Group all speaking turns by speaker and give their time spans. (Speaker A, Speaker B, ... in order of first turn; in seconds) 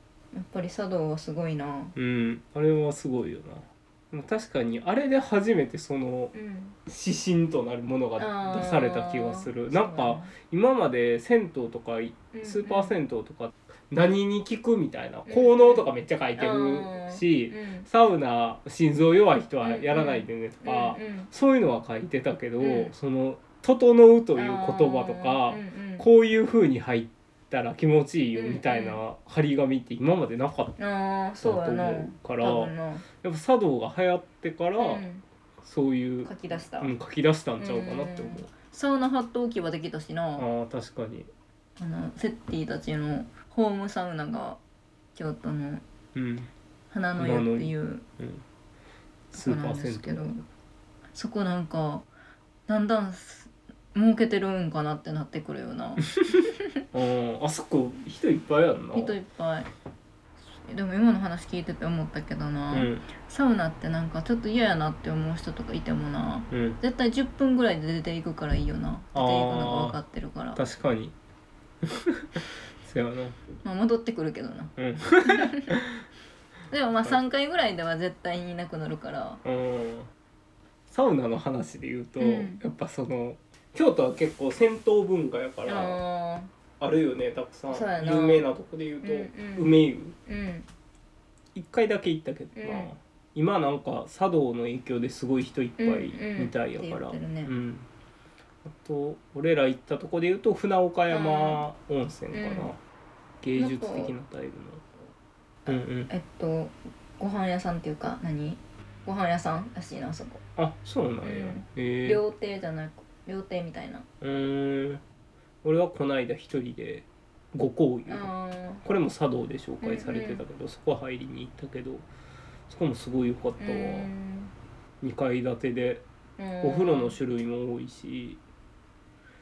Speaker A: 0.3-1.9, 6.3-6.8, 8.2-10.3, 12.3-12.9, 15.3-15.8, 16.4-17.9, 19.6-21.3, 22.6-22.9, 24.4-26.1, 28.4-29.0, 30.8-33.0, 34.8-35.2, 36.2-36.9, 37.6-40.5, 41.8-44.6, 45.1-45.8, 46.9-48.0, 49.3-50.4, 51.1-52.1, 52.7-56.6, 58.9-59.7, 60.5-70.6, 73.6-74.7, 75.2-75.8, 76.7-79.4, 82.2-82.6, 85.7-86.5, 87.7-88.5, 89.0-90.7, 92.5-92.9, 95.8-97.5, 101.1-101.6, 102.3-102.7, 103.6-104.1, 105.7-110.4, 111.2-114.1, 118.1-118.8, 119.8-120.4, 123.6-124.5, 126.4-127.2
Speaker B: 1.9-6.3, 6.9-30.8, 31.4-35.0, 35.6-38.5, 40.4-41.3, 46.1-46.5, 47.2-48.4, 49.3-50.4, 56.9-59.2, 62.7-63.0, 66.5-66.8, 69.1-70.0, 70.5-71.1, 71.8-73.4, 74.8-76.0, 79.4-80.1, 80.9-86.0, 86.8-90.2, 91.5-97.9, 98.6-102.8, 103.4-104.8, 105.7-106.1, 110.6-112.2, 114.2-115.0, 115.6-118.3, 118.8-122.1, 122.7-124.1, 125.0-126.0, 126.6-128.4